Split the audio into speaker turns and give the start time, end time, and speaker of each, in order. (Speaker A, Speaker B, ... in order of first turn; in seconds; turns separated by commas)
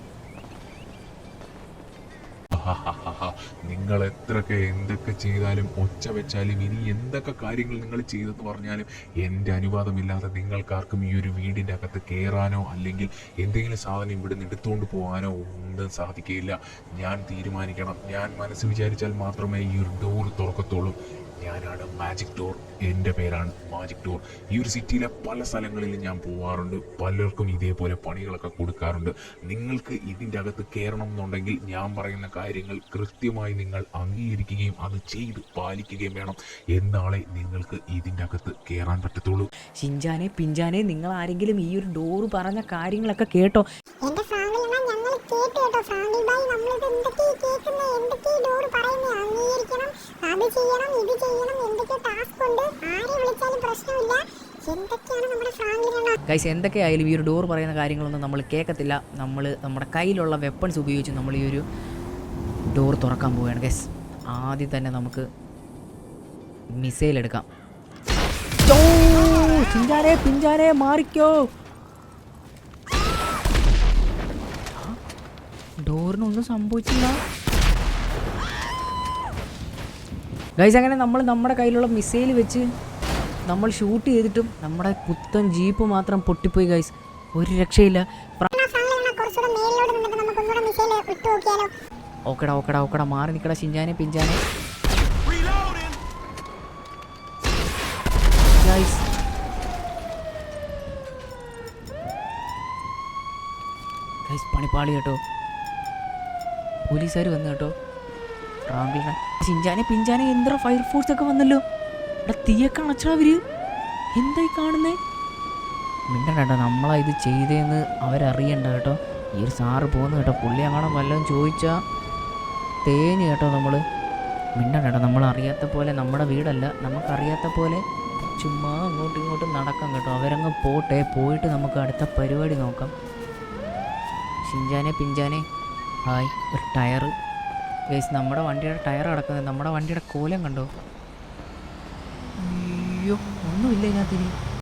Speaker A: 2.5-39.5, Speaker B: 39.8-43.6, Speaker C: 44.0-56.1, Speaker B: 56.3-61.6, Speaker B: 62.7-65.2, Speaker B: 66.8-67.4, Speaker B: 68.6-71.4, Speaker B: 75.8-77.2, Speaker B: 80.6-82.6, Speaker B: 83.5-88.5, Speaker C: 88.5-91.7, Speaker B: 92.3-94.4, Speaker B: 98.5-99.0, Speaker B: 104.3-105.2, Speaker B: 106.9-107.7, Speaker B: 108.7-111.6, Speaker B: 112.2-113.4, Speaker B: 114.2-115.0, Speaker B: 116.1-121.8, Speaker B: 122.8-123.8, Speaker B: 124.6-132.9, Speaker B: 134.4-135.4, Speaker B: 136.1-137.1, Speaker B: 137.9-140.7, Speaker B: 142.4-144.3